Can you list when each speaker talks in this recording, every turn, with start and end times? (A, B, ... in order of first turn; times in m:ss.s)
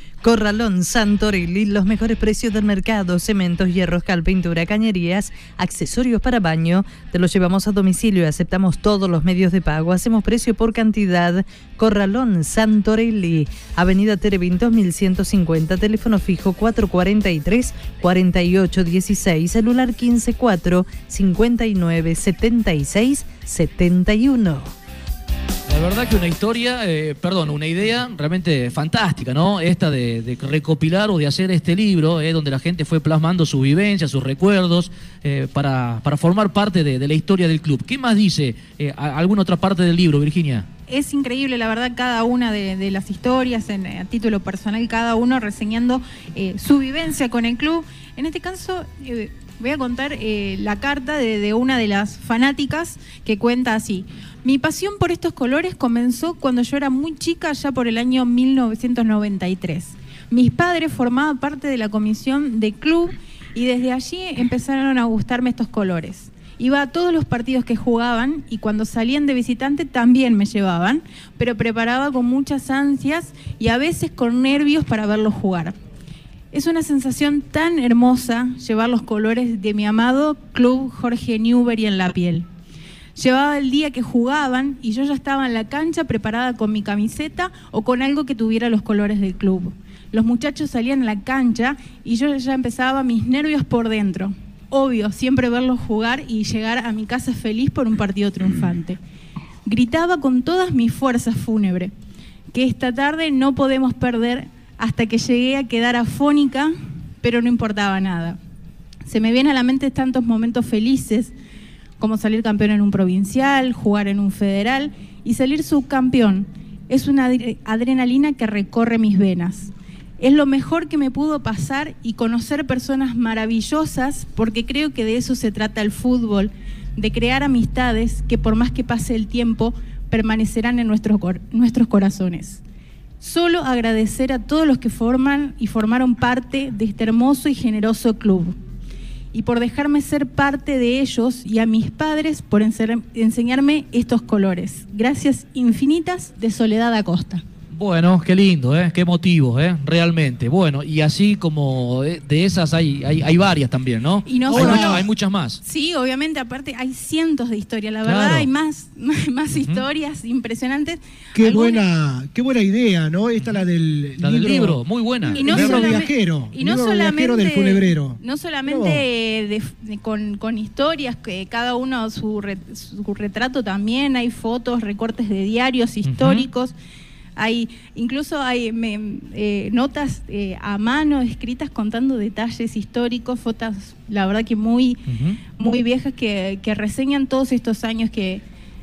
0:00.2-0:24.7 A
0:25.7-0:40.7 B
0:40.9-1:15.8 C
1:16.5-1:22.5 C
1:23.2-1:39.0 C
1:39.6-1:41.9 C
1:42.5-1:48.4 C
1:49.1-1:51.3 C
1:52.0-2:12.6 C
2:13.2-2:18.6 C
2:19.3-2:27.4 C
2:27.7-2:35.6 B
2:34.3-2:35.1 C
2:34.5-2:35.0 D
2:35.6-2:41.8 C
2:38.0-2:38.5 B
2:39.6-2:39.8 B
2:41.4-2:49.0 D
2:44.2-2:45.9 B
2:45.3-2:56.8 C
2:56.0-2:56.5 B
2:57.4-3:05.0 C
3:05.1-3:05.4 B
3:05.6-3:08.4 C